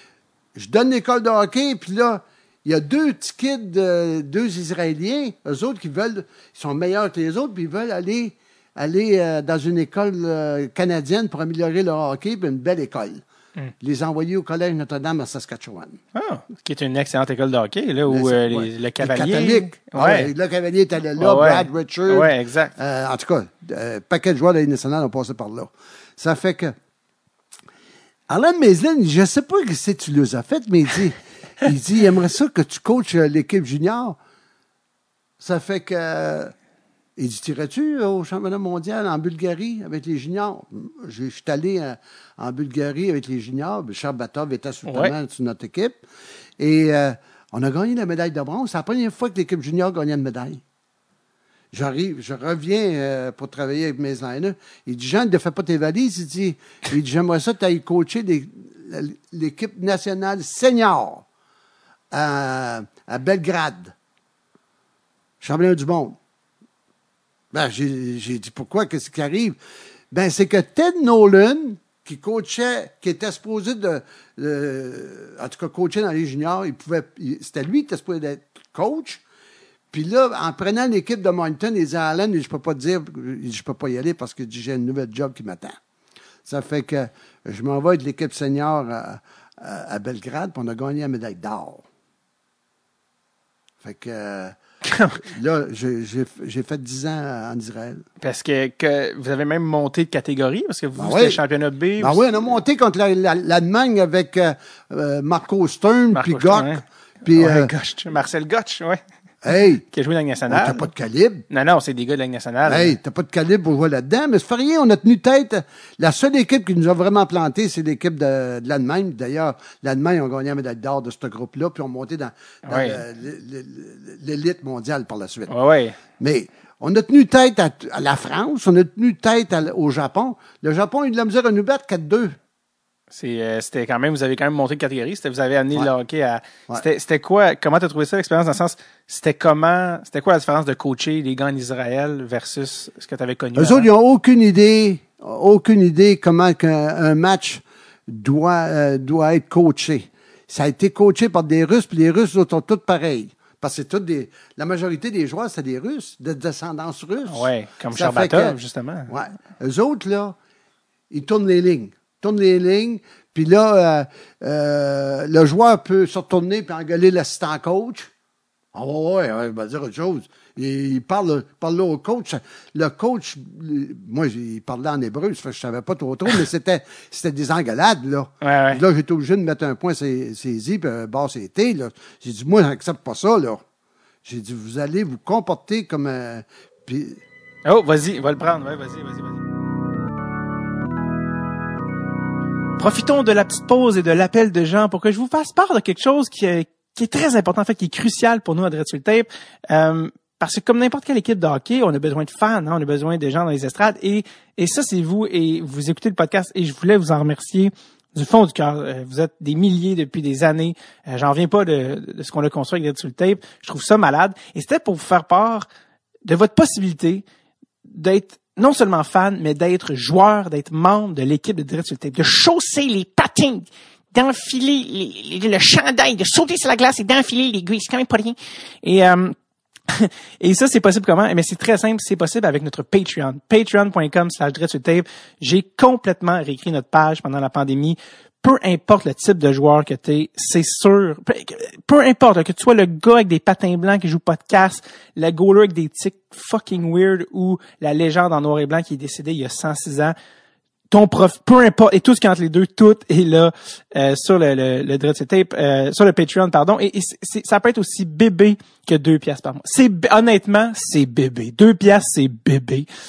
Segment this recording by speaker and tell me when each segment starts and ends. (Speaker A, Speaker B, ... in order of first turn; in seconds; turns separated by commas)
Speaker A: 0.6-13.2, Speaker A: 13.8-16.0, Speaker B: 16.1-20.3, Speaker A: 18.1-26.8, Speaker B: 21.2-22.7, Speaker A: 28.3-34.2, Speaker A: 35.4-36.5, Speaker A: 37.2-46.0, Speaker B: 44.9-45.1, Speaker A: 46.6-50.6, Speaker A: 51.7-61.3, Speaker A: 62.1-63.9, Speaker A: 65.4-66.2, Speaker A: 67.5-69.6, Speaker A: 70.1-79.2, Speaker A: 79.9-85.8, Speaker A: 86.4-91.8, Speaker A: 93.8-94.6, Speaker B: 94.8-95.2, Speaker A: 95.2-98.0, Speaker B: 98.2-102.5, Speaker A: 101.0-101.4, Speaker A: 102.0-107.7, Speaker B: 106.1-109.0, Speaker A: 109.4-109.8, Speaker B: 109.9-110.9, Speaker A: 110.5-111.5, Speaker B: 111.5-113.0, Speaker A: 112.7-125.5, Speaker B: 122.7-123.0, Speaker B: 125.5-126.0, Speaker A: 126.2-132.4, Speaker B: 133.1-143.9, Speaker A: 143.6-160.4, Speaker B: 157.3-159.1, Speaker A: 161.1-168.1, Speaker A: 168.7-183.6, Speaker B: 178.4-178.8, Speaker A: 184.2-187.2, Speaker B: 187.7-189.4, Speaker B: 192.8-215.7, Speaker B: 216.2-217.2, Speaker B: 217.8-229.3, Speaker B: 229.9-250.1, Speaker B: 250.9-262.9